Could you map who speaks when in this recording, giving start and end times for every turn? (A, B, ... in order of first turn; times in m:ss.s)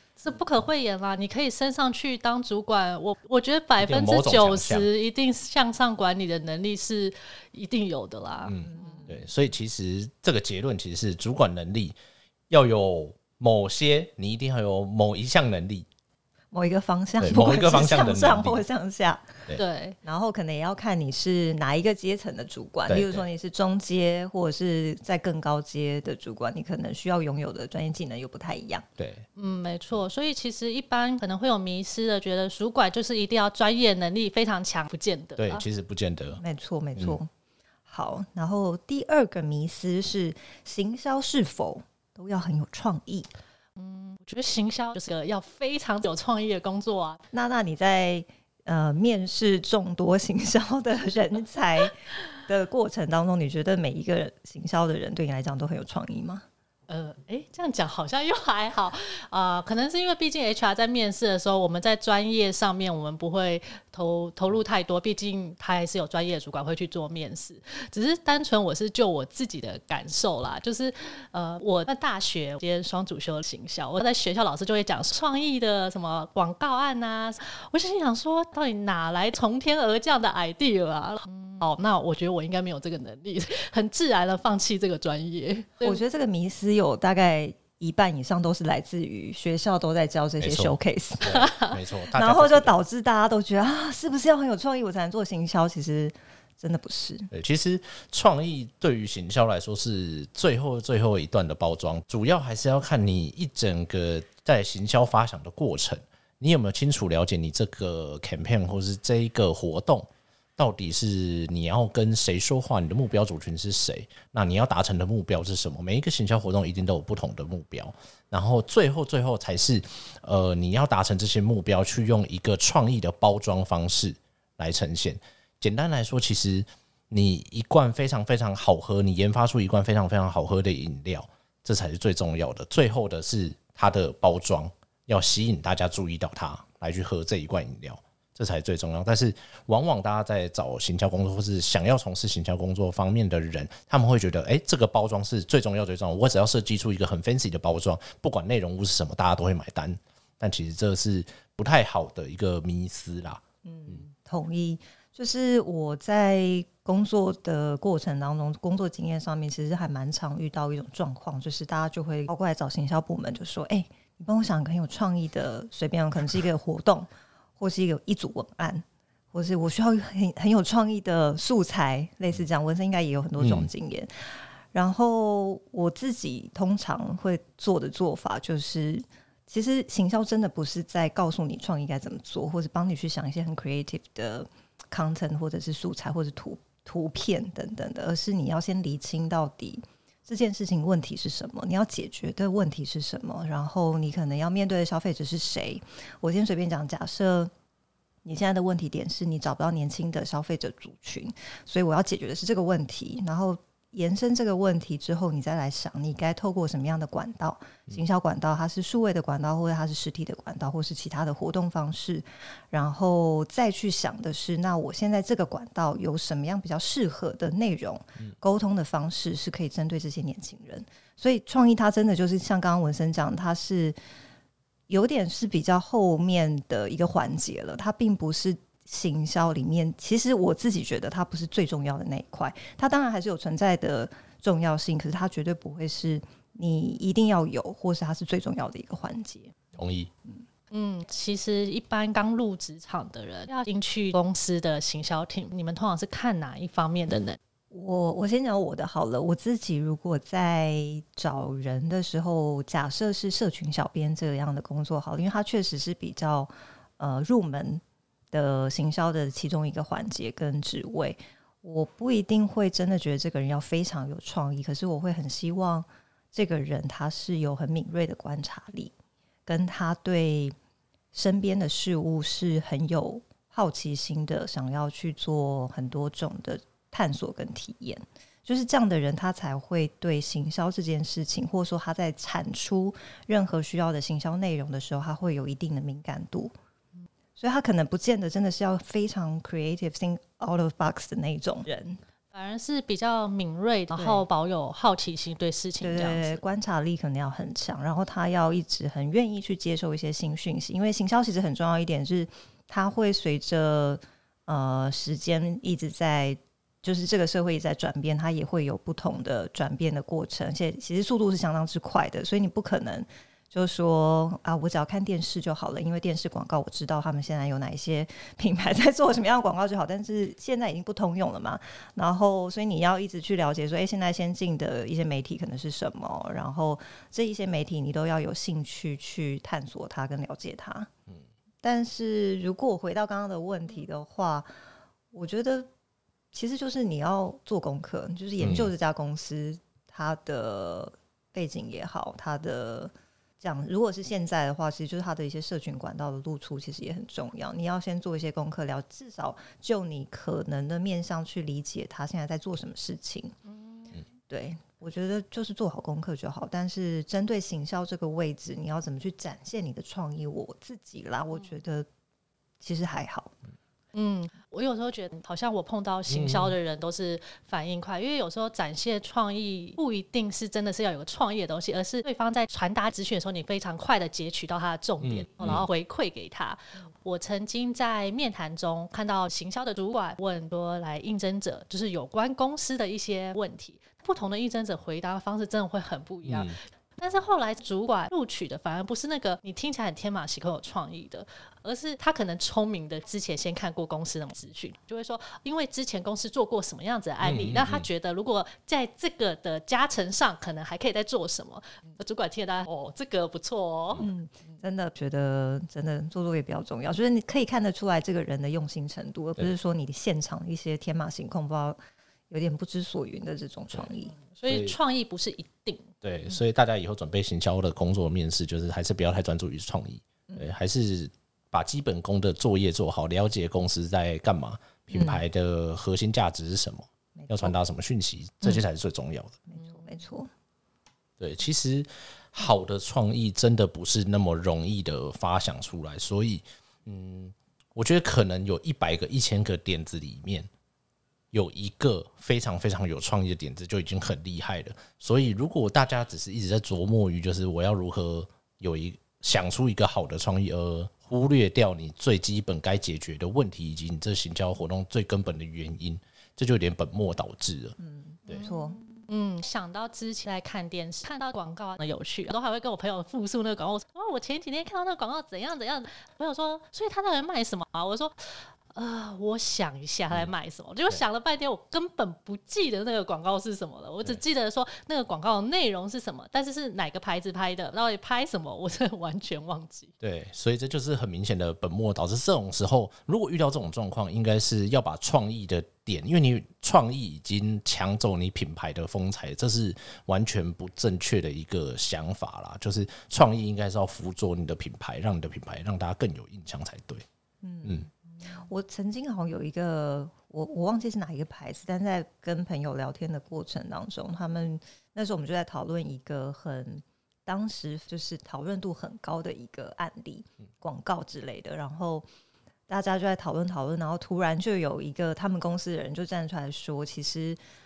0:00.2-0:09.1 A
0:03.8-0:04.9 B
0:08.4-0:12.0 B
0:08.6-0:09.2 C
0:12.5-0:15.8 B
0:16.5-0:28.8 C
0:17.2-0:18.6 B
0:19.6-0:20.0 A
0:22.9-0:23.3 B
0:29.0-0:29.2 B
0:29.4-0:35.6 A
0:35.4-0:36.4 B
0:36.4-0:37.3 C
0:37.9-0:43.3 C
0:43.8-0:47.2 A
0:47.3-0:56.4 C
0:56.9-1:26.0 A
1:25.8-1:31.4 C
1:30.4-1:32.8 B
1:31.3-1:31.7 A
1:32.1-1:37.3 C
1:37.3-2:34.0 B
2:33.6-2:54.1 C
2:53.4-2:53.7 B
2:54.7-3:17.5 C
3:18.2-3:44.0 C
3:44.9-3:59.5 C
3:59.8-4:00.1 B
4:00.7-4:07.4 A
4:07.7-4:28.9 C
4:29.4-4:30.5 C
4:31.1-4:46.5 C
4:47.4-4:52.0 C
4:52.3-4:56.4 A
4:53.9-4:54.2 C
4:55.8-5:30.9 C
5:31.6-5:34.5 C
5:35.1-5:35.7 C
5:36.3-5:53.4 C
5:38.4-5:38.7 B
5:53.5-5:54.0 A
5:54.3-6:01.9 C
6:02.6-6:03.3 C
6:03.9-6:44.0 A
6:06.1-6:06.5 B
6:15.0-6:15.7 B
6:26.2-6:26.6 B
6:37.2-6:37.9 B
6:44.0-6:51.8 C
6:52.3-6:54.1 C
6:54.2-6:55.9 A
6:54.5-6:54.8 B
6:56.0-7:09.4 B
7:04.9-7:05.2 C
7:07.2-7:07.6 C
7:09.5-7:10.3 C
7:11.2-7:20.5 B
7:21.3-7:37.8 B
7:37.8-7:38.8 C
7:39.1-7:59.9 A
8:00.0-8:17.0 B
8:17.4-8:32.1 C
8:32.7-8:37.4 C